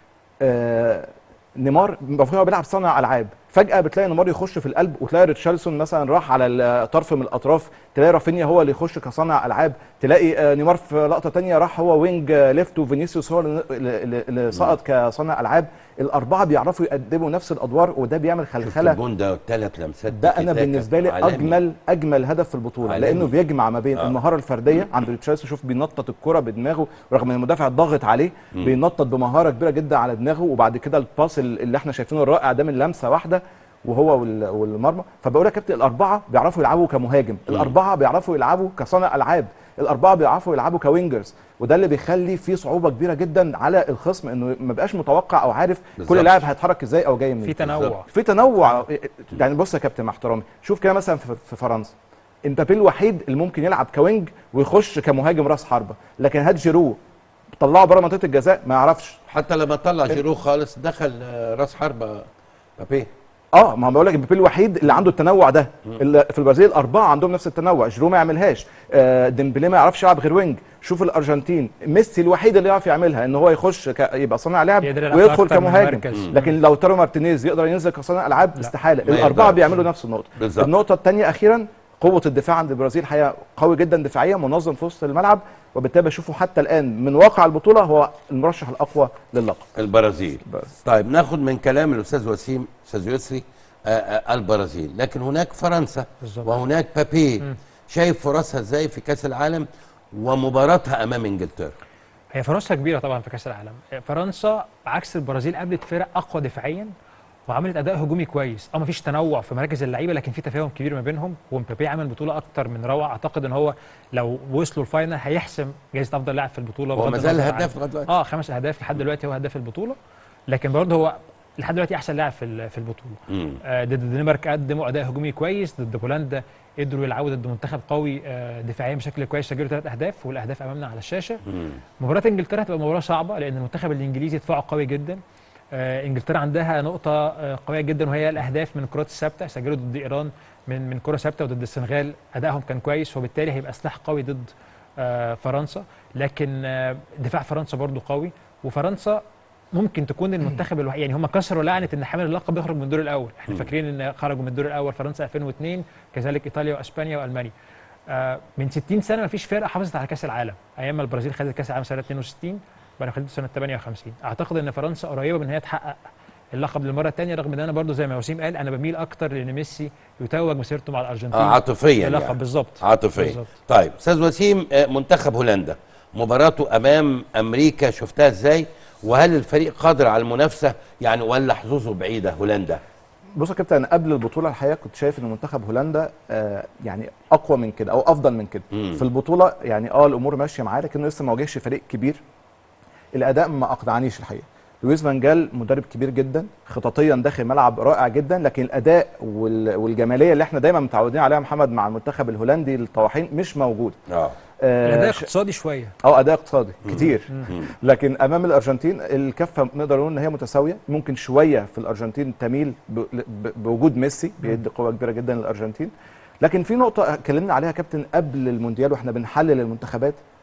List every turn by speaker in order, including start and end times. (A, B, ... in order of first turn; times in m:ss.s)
0:00.4-0:19.0 A
0:18.6-0:21.6 B
0:20.1-0:51.9 A
0:22.8-0:23.3 B
0:46.0-0:46.4 B
0:47.4-0:48.1 C
0:47.6-0:47.9 B
0:52.4-0:57.0 A
0:57.6-0:59.2 A
0:59.3-1:02.3 B
1:02.8-1:03.1 B
1:03.5-1:29.7 A
1:14.8-1:16.5 C
1:19.0-1:19.8 B
1:20.4-1:20.7 B
1:29.8-1:41.7 B
1:30.4-1:30.7 A
1:36.2-1:36.5 C
1:42.3-1:46.9 C
1:47.5-2:11.4 C
1:56.9-1:58.1 B
2:03.3-2:03.6 B
2:11.5-2:11.8 B
2:12.0-2:15.2 C
2:15.7-2:29.2 C
2:29.7-2:37.5 C
2:38.1-2:46.0 C
2:46.5-2:53.5 C
2:51.3-3:02.8 B
3:03.4-3:12.2 A
3:08.7-3:09.0 B
3:13.1-3:24.0 A
3:24.1-3:24.4 B
3:24.6-3:25.3 A
3:24.8-3:25.9 C
3:26.0-3:40.2 A
3:26.9-3:27.7 B